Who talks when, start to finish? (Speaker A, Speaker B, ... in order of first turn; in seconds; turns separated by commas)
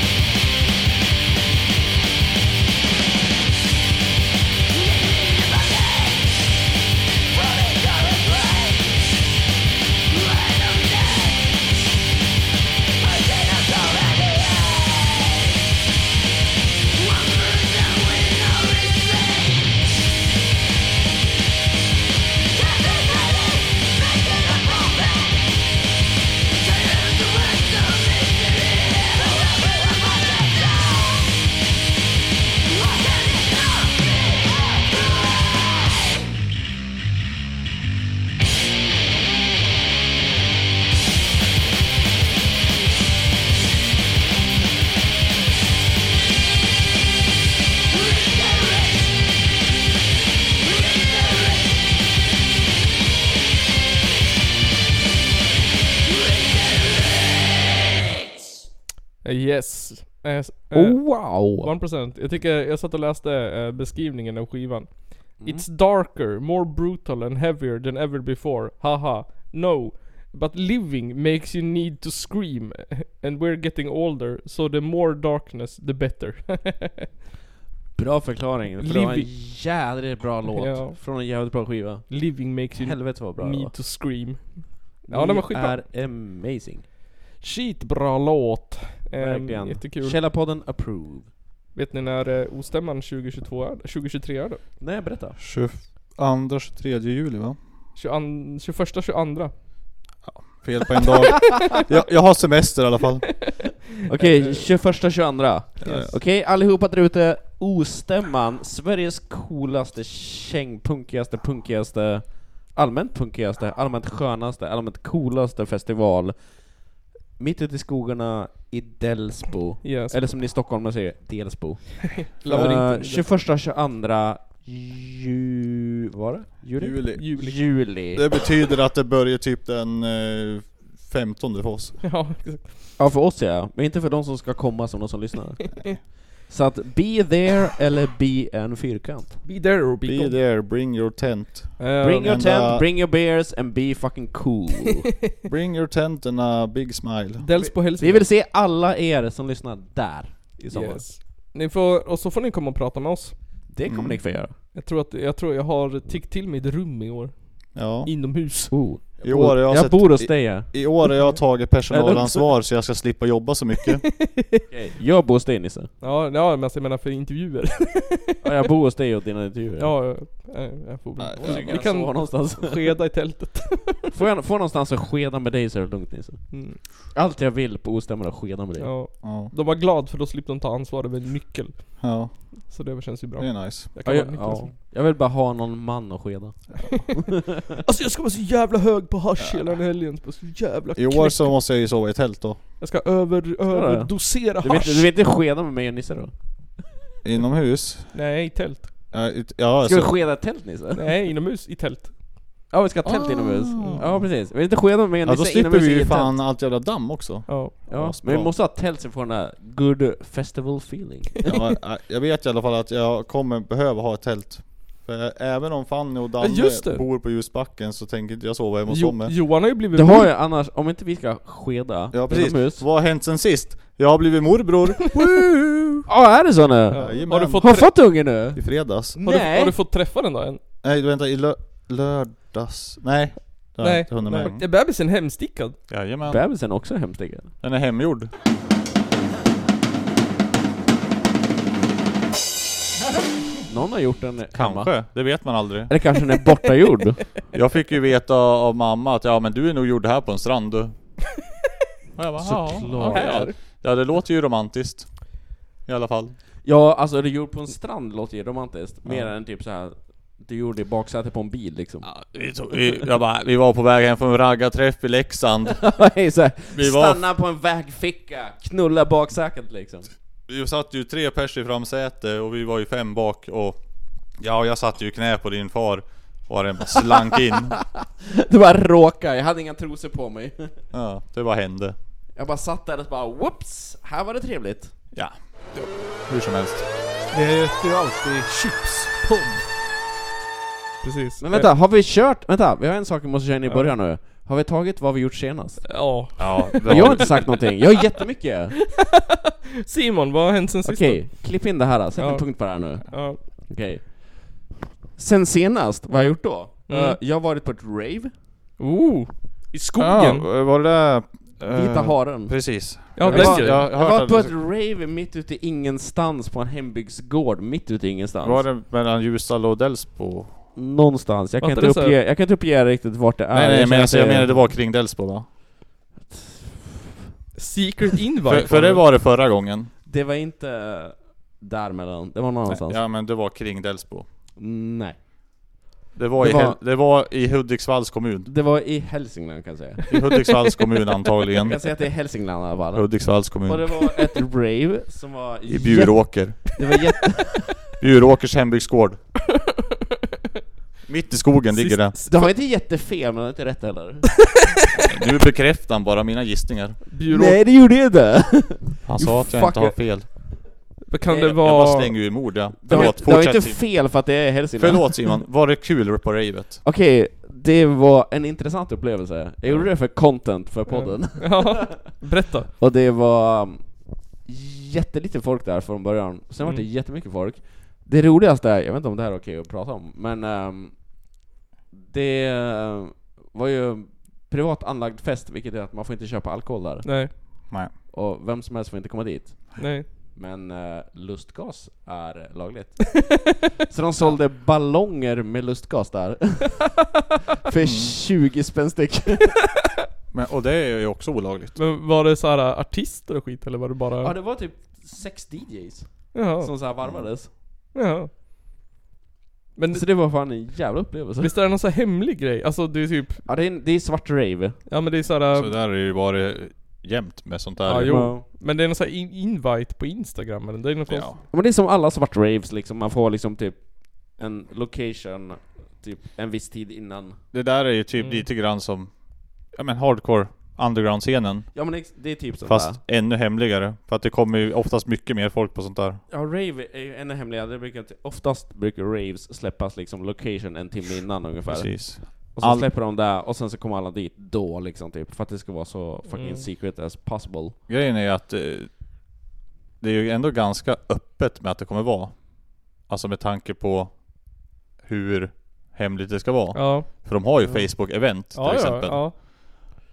Speaker A: 59.2-77.1, Speaker B: 60.7-61.7, Speaker B: 65.4-65.6, Speaker B: 78.0-83.7, Speaker A: 78.8-79.3, Speaker A: 80.5-81.0, Speaker A: 82.1-85.8, Speaker B: 85.1-86.9, Speaker A: 87.4-90.2, Speaker B: 89.2-91.3, Speaker A: 91.7-94.6, Speaker B: 94.8-95.4, Speaker C: 95.4-97.6, Speaker A: 97.9-99.5, Speaker C: 100.2-103.7, Speaker B: 104.0-116.8, Speaker A: 104.2-104.7, Speaker A: 105.8-106.1, Speaker C: 105.8-106.1, Speaker B: 117.4-128.3, Speaker A: 119.8-120.2, Speaker A: 122.2-123.3, Speaker C: 122.4-122.8, Speaker C: 126.8-132.0, Speaker A: 127.1-127.6, Speaker A: 132.0-132.9, Speaker B: 133.0-139.4, Speaker A: 139.4-140.4, Speaker C: 140.0-142.8, Speaker A: 141.8-142.5, Speaker B: 142.0-145.1, Speaker C: 145.4-147.4, Speaker A: 147.4-148.3, Speaker B: 147.5-151.1, Speaker A: 150.7-153.4, Speaker B: 153.7-154.5, Speaker C: 153.9-154.2, Speaker A: 154.7-158.8, Speaker C: 157.7-158.1, Speaker B: 158.7-161.1, Speaker C: 159.2-164.1, Speaker B: 161.9-162.5, Speaker A: 164.1-164.6, Speaker B: 164.7-165.9, Speaker A: 166.0-168.4, Speaker B: 168.4-170.0, Speaker A: 169.8-174.1, Speaker C: 171.2-171.9, Speaker B: 171.4-173.0, Speaker B: 174.1-178.9, Speaker A: 176.5-176.8, Speaker A: 178.8-182.1, Speaker C: 179.2-179.5, Speaker C: 182.0-182.6, Speaker A: 182.7-184.7, Speaker C: 183.4-183.9, Speaker B: 184.1-187.6, Speaker A: 187.8-191.6, Speaker C: 189.4-189.8, Speaker C: 190.9-192.6, Speaker A: 192.8-195.1, Speaker B: 193.7-196.3, Speaker C: 197.2-198.1, Speaker A: 198.1-198.9, Speaker C: 199.1-200.2, Speaker B: 199.8-201.1, Speaker A: 200.9-202.1, Speaker B: 202.7-206.3, Speaker C: 203.1-204.5, Speaker C: 205.2-208.5, Speaker A: 207.5-207.7, Speaker B: 207.9-211.5, Speaker C: 211.4-219.3, Speaker A: 216.4-217.1, Speaker A: 218.9-220.3, Speaker B: 219.9-222.8, Speaker C: 222.1-226.1, Speaker B: 226.1-229.8, Speaker A: 226.9-227.9, Speaker C: 226.9-229.2, Speaker A: 229.2-230.6, Speaker C: 230.8-234.7, Speaker A: 233.8-235.8, Speaker C: 235.9-236.4, Speaker B: 236.3-237.5, Speaker C: 237.6-238.3, Speaker B: 243.7-247.3, Speaker C: 244.5-245.9, Speaker C: 247.5-250.9, Speaker C: 252.2-256.4, Speaker B: 252.4-253.5, Speaker A: 253.1-253.6, Speaker B: 256.6-262.1, Speaker C: 259.1-259.3, Speaker C: 262.0-265.9, Speaker B: 265.7-270.1, Speaker C: 266.7-267.2, Speaker C: 270.5-273.8, Speaker C: 274.4-277.8, Speaker B: 277.1-280.8, Speaker C: 280.9-281.9, Speaker B: 282.4-285.0, Speaker C: 285.1-286.9, Speaker A: 287.3-289.6, Speaker A: 291.0-291.7, Speaker B: 291.4-298.8, Speaker A: 293.7-293.9, Speaker A: 295.9-297.7, Speaker C: 296.4-297.7, Speaker A: 298.9-301.6, Speaker B: 300.8-308.3, Speaker A: 302.2-303.4, Speaker A: 306.9-307.2, Speaker A: 308.8-310.5, Speaker C: 310.0-314.6, Speaker B: 311.6-318.7, Speaker A: 313.1-313.9, Speaker C: 318.4-320.6, Speaker B: 320.7-324.7, Speaker A: 321.6-322.2, Speaker C: 323.5-325.5, Speaker B: 326.3-327.2, Speaker A: 327.6-329.0, Speaker C: 328.4-329.9, Speaker B: 330.1-333.0, Speaker C: 332.6-334.3, Speaker B: 334.6-335.2, Speaker C: 336.1-338.5, Speaker B: 336.4-336.8, Speaker B: 338.4-340.1, Speaker C: 340.1-344.1, Speaker B: 341.6-347.9, Speaker C: 345.7-346.7, Speaker C: 348.0-349.2, Speaker C: 351.1-352.1, Speaker A: 351.7-352.5, Speaker B: 352.3-354.6, Speaker C: 355.0-357.0, Speaker A: 357.1-357.6, Speaker B: 357.2-360.6, Speaker C: 359.0-360.3, Speaker A: 361.1-363.2, Speaker B: 361.3-361.6, Speaker C: 361.4-364.1, Speaker B: 362.8-365.4, Speaker C: 364.7-366.8, Speaker B: 366.8-372.2, Speaker A: 370.9-372.7, Speaker B: 372.8-381.2, Speaker B: 381.9-397.1, Speaker A: 387.0-387.3, Speaker A: 389.8-390.1, Speaker B: 397.6-399.6, Speaker C: 397.8-398.1, Speaker C: 400.3-401.8, Speaker A: 401.7-404.3, Speaker B: 404.2-407.5, Speaker A: 406.3-406.7, Speaker C: 407.0-407.3, Speaker A: 407.9-408.3, Speaker A: 409.8-410.1, Speaker B: 409.9-411.5, Speaker A: 411.4-413.4, Speaker B: 413.4-414.8, Speaker A: 414.9-415.7, Speaker C: 415.5-418.3, Speaker A: 417.9-421.4, Speaker B: 418.0-418.4, Speaker C: 421.1-421.4, Speaker B: 421.5-427.4, Speaker C: 427.5-432.1, Speaker A: 428.2-428.4, Speaker B: 431.7-433.0, Speaker C: 432.6-436.2, Speaker B: 436.3-447.8, Speaker C: 441.7-442.9, Speaker A: 446.3-446.6, Speaker C: 447.9-449.0, Speaker C: 450.0-454.3, Speaker C: 455.0-459.3, Speaker A: 456.7-457.1, Speaker A: 458.5-459.3